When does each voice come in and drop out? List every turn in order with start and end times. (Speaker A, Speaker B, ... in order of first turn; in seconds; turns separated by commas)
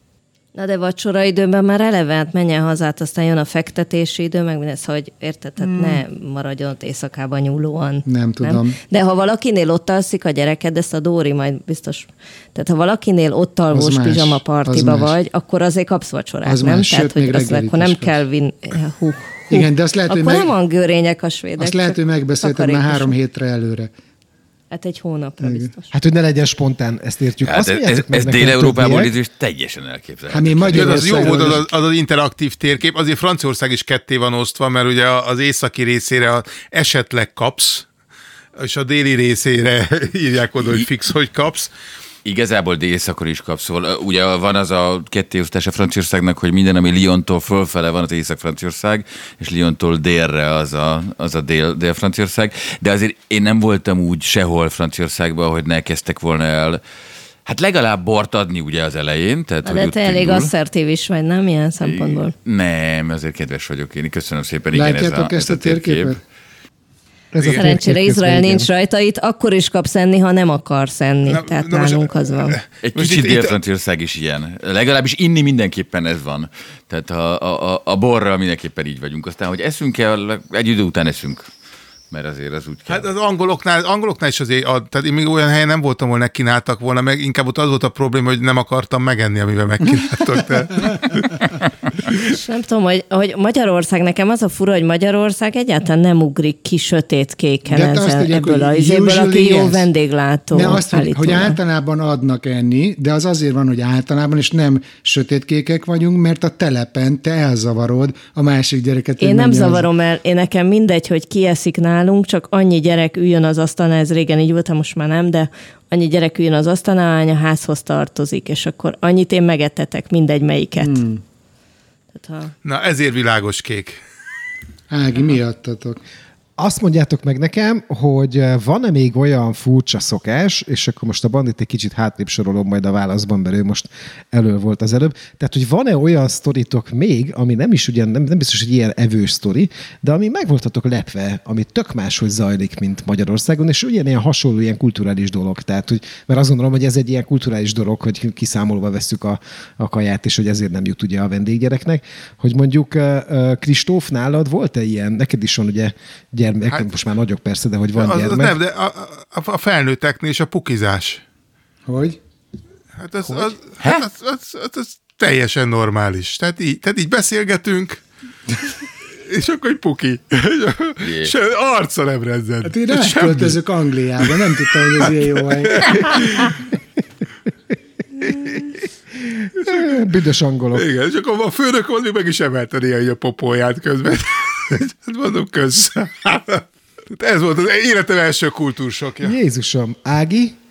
Speaker A: 0.5-23.1, Speaker B: 5.6-6.0, Speaker B: 8.1-8.8, Speaker B: 13.7-15.1, Speaker B: 16.4-18.2, Speaker B: 19.5-20.5, Speaker B: 21.6-23.9, Speaker A: 24.7-25.9, Speaker B: 25.4-25.7, Speaker C: 25.9-29.1, Speaker D: 27.4-31.4, Speaker B: 30.3-31.7, Speaker E: 30.7-37.9, Speaker E: 38.6-41.7, Speaker D: 42.2-56.8, Speaker D: 57.5-60.5, Speaker A: 59.6-62.3, Speaker D: 61.8-66.2, Speaker B: 64.7-66.2, Speaker C: 67.3-68.7, Speaker E: 67.4-67.7, Speaker A: 67.5-72.6, Speaker E: 71.3-73.5, Speaker D: 72.8-81.5, Speaker D: 82.1-83.1, Speaker E: 82.9-92.2, Speaker A: 92.1-101.6, Speaker B: 97.7-99.9, Speaker B: 100.5-109.9, Speaker A: 109.2-121.0, Speaker B: 120.8-121.2, Speaker A: 122.1-122.5, Speaker E: 122.6-124.0, Speaker B: 124.9-126.0, Speaker C: 126.6-158.6, Speaker E: 157.9-161.2, Speaker B: 161.9-162.2, Speaker E: 163.0-168.0, Speaker E: 169.3-173.6, Speaker D: 171.0-171.3, Speaker B: 172.6-176.0, Speaker E: 174.3-176.6, Speaker C: 178.2-178.6, Speaker C: 179.4-180.8, Speaker E: 180.7-189.3, Speaker C: 189.2-190.6